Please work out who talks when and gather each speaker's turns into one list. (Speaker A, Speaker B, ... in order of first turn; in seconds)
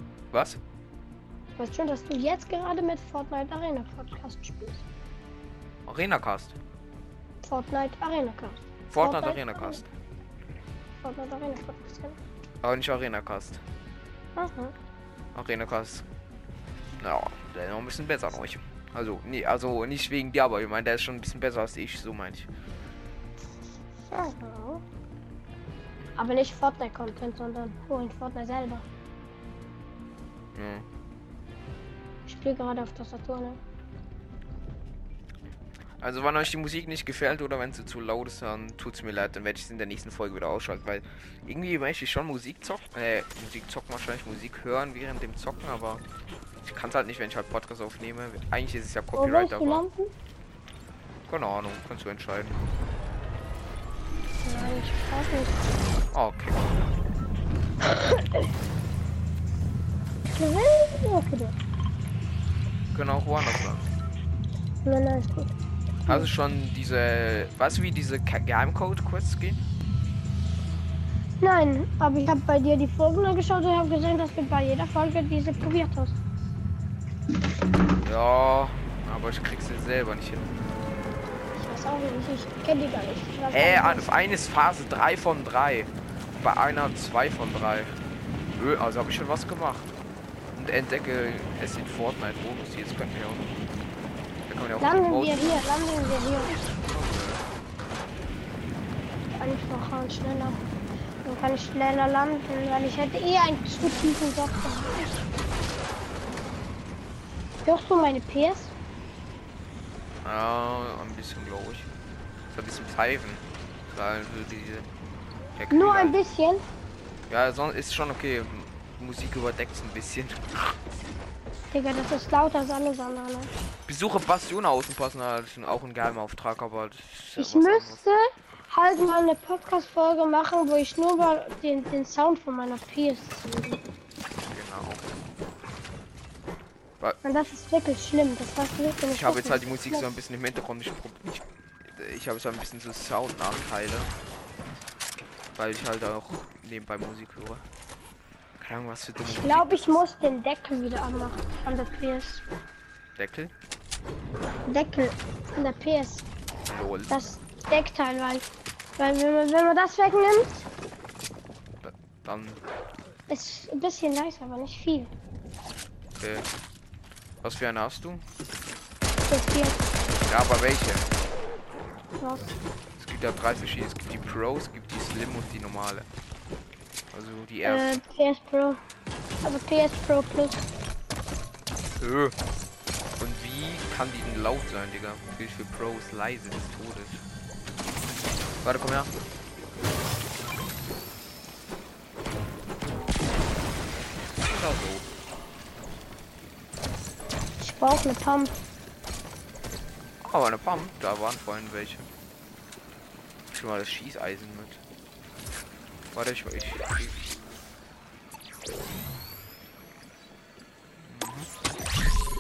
Speaker A: 0.3-0.6, 5.9-6.6, 8.9-9.9, 12.6-13.6, 15.3-16.0, 17.0-22.5, 30.6-30.9, 36.0-46.0, 46.6-49.9, 51.3-52.6, 56.1-56.7, 62.9-63.9, 66.1-69.6, 78.0-80.5, 83.5-88.0, 88.6-89.9, 90.6-93.6, 94.5-95.5, 96.9-97.4, 110.2-111.9, 112.5-114.9, 115.6-116.2, 117.3-120.8, 123.9-128.0, 134.5-135.1, 139.1-144.1, 145.6-147.6, 148.6-150.1, 153.2-153.5, 156.7-157.2, 161.8-162.6, 166.2-166.5, 167.4-168.2, 170.2-171.1, 173.0-176.1, 177.1-178.0, 182.0-182.3, 183.2-187.2, 188.6-189.1, 194.4-195.1, 200.2-202.1, 203.5-204.8, 206.1-207.2, 211.0-211.5
Speaker B: 1.6-4.8, 7.4-9.8, 11.0-12.2, 14.4-14.7, 24.1-24.8, 26.2-28.9, 32.3-33.6, 49.1-50.1, 54.4-55.6, 57.9-58.4, 60.2-61.6, 64.8-65.6, 71.4-76.2, 81.6-84.1, 94.8-96.7, 99.3-100.6, 101.2-105.2, 107.6-108.7, 115.7-116.6, 121.7-123.5, 127.4-133.8, 137.2-140.1, 149.2-152.4, 154.7-156.3, 157.1-158.4, 159.0-160.7, 163.3-165.1, 169.3-169.8, 172.2-172.6, 177.6-178.8, 179.4-180.7, 197.6-198.6